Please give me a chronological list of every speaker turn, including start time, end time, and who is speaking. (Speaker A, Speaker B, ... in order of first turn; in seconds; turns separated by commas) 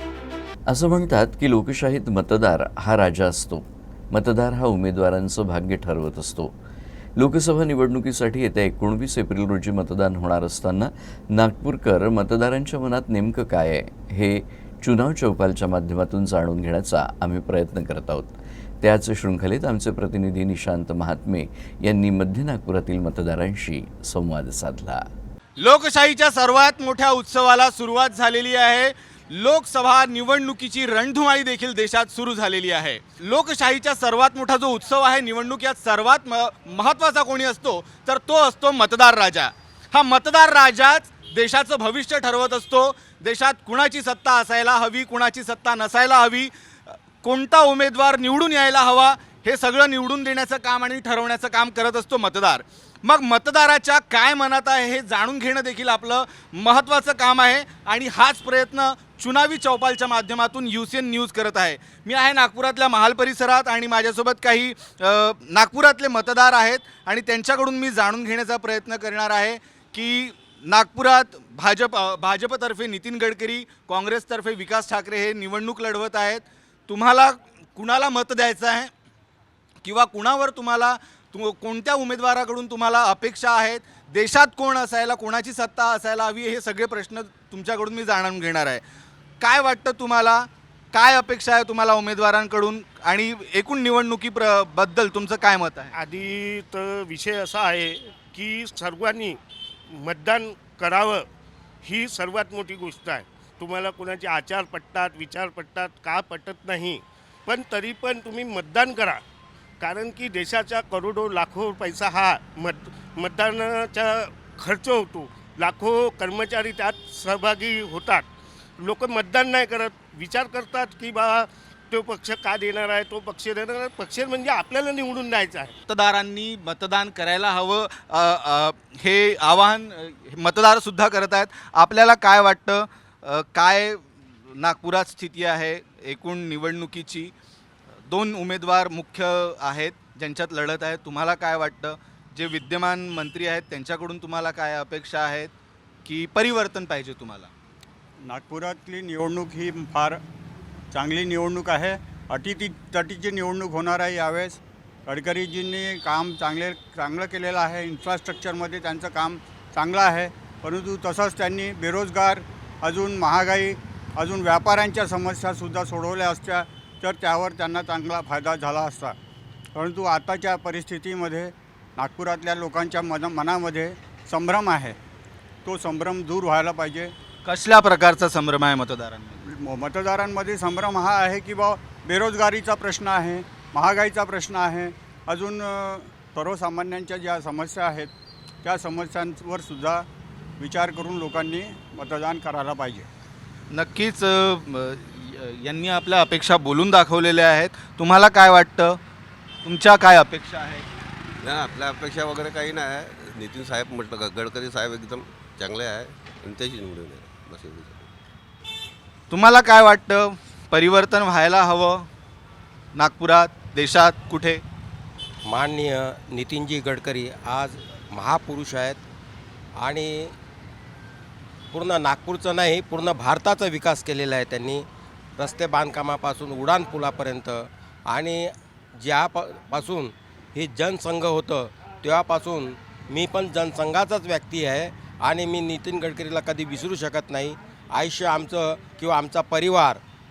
Speaker A: 0.7-6.5, Speaker A: 7.2-25.0, Speaker B: 25.6-78.9, Speaker B: 79.8-88.8, Speaker B: 89.4-95.9, Speaker C: 95.9-101.3, Speaker C: 101.8-109.2, Speaker C: 109.8-118.3, Speaker C: 118.8-125.7, Speaker B: 125.9-137.3, Speaker B: 138.1-145.5, Speaker B: 146.0-147.5, Speaker D: 148.2-150.2, Speaker D: 150.9-169.2, Speaker D: 169.7-175.0, Speaker D: 175.6-177.1, Speaker B: 177.4-179.4, Speaker D: 179.5-188.1, Speaker D: 188.6-190.1, Speaker D: 190.6-193.1, Speaker B: 193.7-199.0, Speaker B: 199.6-200.8, Speaker E: 201.4-208.1, Speaker B: 209.3-212.1, Speaker B: 212.9-214.6, Speaker F: 215.4-219.0, Speaker F: 219.8-220.3, Speaker F: 221.7-224.8, Speaker F: 225.4-240.0